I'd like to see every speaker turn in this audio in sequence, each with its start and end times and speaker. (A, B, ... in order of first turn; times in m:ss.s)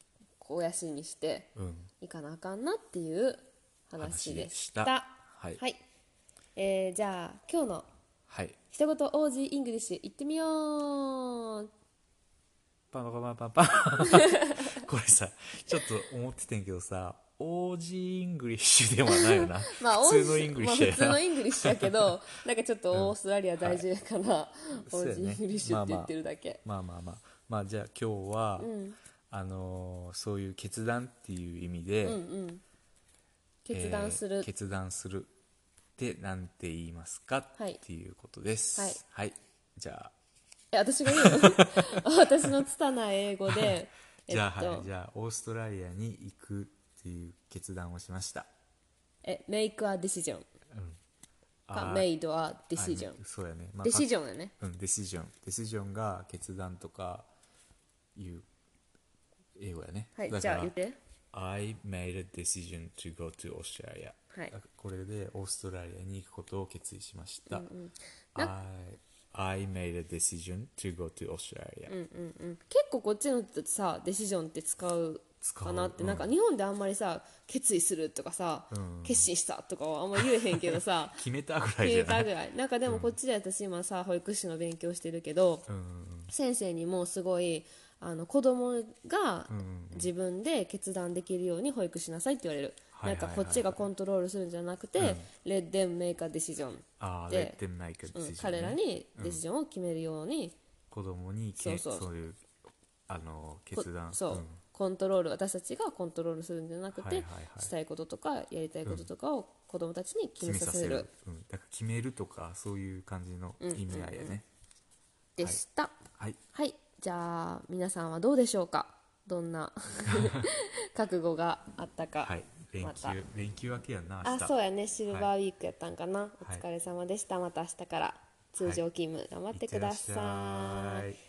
0:00.4-0:05.8 A
0:01.6-0:01.9 B
0:04.0-0:05.6 B
0:06.6-0:07.9 A
0:08.3-0:08.6 B
0:08.7-0:11.7 A
0:12.9-0:22.1 B
0:14.1-0:14.6 A
0:19.1-0:26.6 A
0:22.9-0:23.8 B
0:24.9-0:26.1 B
0:26.6-0:28.7 B
0:28.6-0:29.0 A
0:29.3-0:32.2 B
0:32.0-0:32.6 A
0:33.6-0:34.5 A
0:33.7-0:35.3 B
0:36.0-0:40.1 B
0:38.8-0:39.0 A
0:40.7-0:44.9 A
0:41.1-0:42.0 B
0:43.5-0:43.7 B
0:44.3-0:48.5 B
0:49.2-0:50.4 A
0:50.7-0:51.0 B
0:51.7-0:52.1 B
0:51.7-0:53.2 A
0:52.7-0:54.1 B
0:53.8-0:54.5 A
0:54.6-0:57.3 B
0:58.1-0:58.4 B
0:59.6-1:00.7 B
1:00.2-1:01.0 A
1:01.3-1:07.7 B
1:07.5-1:08.5 A
1:08.4-1:11.9 B
1:11.9-1:21.2 A
1:15.4-1:16.3 B
1:18.7-1:19.3 B
1:20.2-1:22.3 B
1:21.8-1:25.6 A
1:22.8-1:23.1 B
1:25.7-1:26.3 B
1:26.3-1:37.6 A
1:29.5-1:30.1 B
1:32.9-1:33.8 B
1:35.0-1:35.3 B
1:37.0-1:39.4 B
1:38.1-1:40.5 A
1:40.9-1:42.4 B
1:41.6-1:42.0 A
1:43.1-1:44.6 B
1:43.7-1:51.1 A
1:46.9-1:47.7 B
1:50.4-1:54.4 B
1:53.6-1:54.4 A
1:55.4-1:56.0 A
1:56.5-2:03.2 A
2:00.1-2:00.5 B
2:02.2-2:04.5 B
2:04.2-2:11.1 A
2:09.5-2:11.2 B